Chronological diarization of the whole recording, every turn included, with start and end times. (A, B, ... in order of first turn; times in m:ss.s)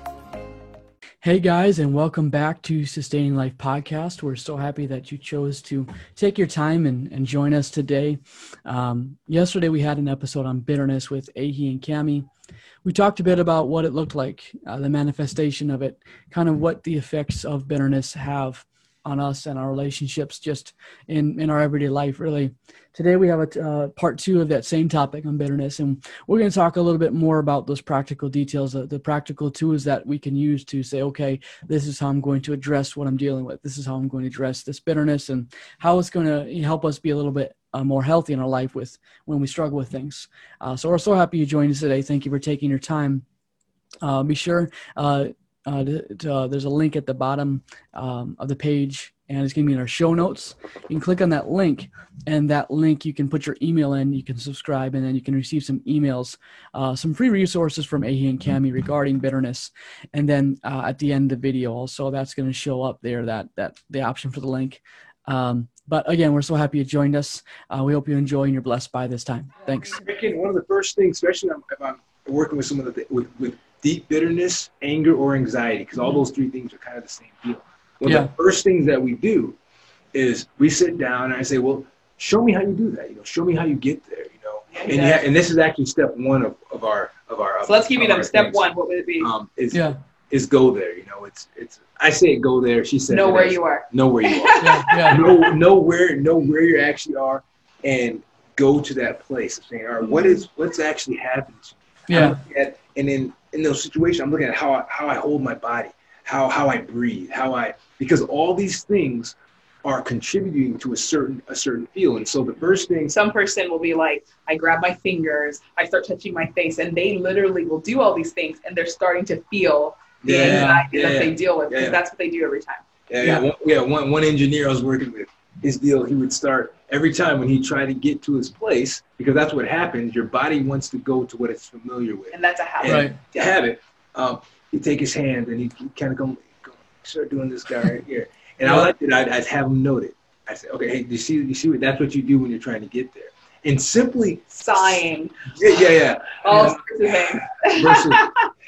0:01.2-0:12.3 A
0:12.8-0:43.2 A
0:44.0-1:10.0 A
1:09.9-1:19.6 B
1:18.0-1:18.3 A
1:20.1-1:28.7 B
1:24.7-1:25.2 C
1:27.6-1:29.3 C
1:29.2-1:53.1 B
1:33.1-1:35.5 C
1:34.6-1:35.2 A
1:42.1-1:42.4 A
1:53.1-2:02.8 C
2:00.2-2:02.0 B
2:00.3-2:00.8 A
2:03.1-2:25.0 B
2:12.3-2:13.1 C
2:12.8-2:13.2 A
2:18.6-2:18.9 A
2:24.5-2:25.3 C
2:25.5-2:28.2 B
2:26.4-2:28.4 C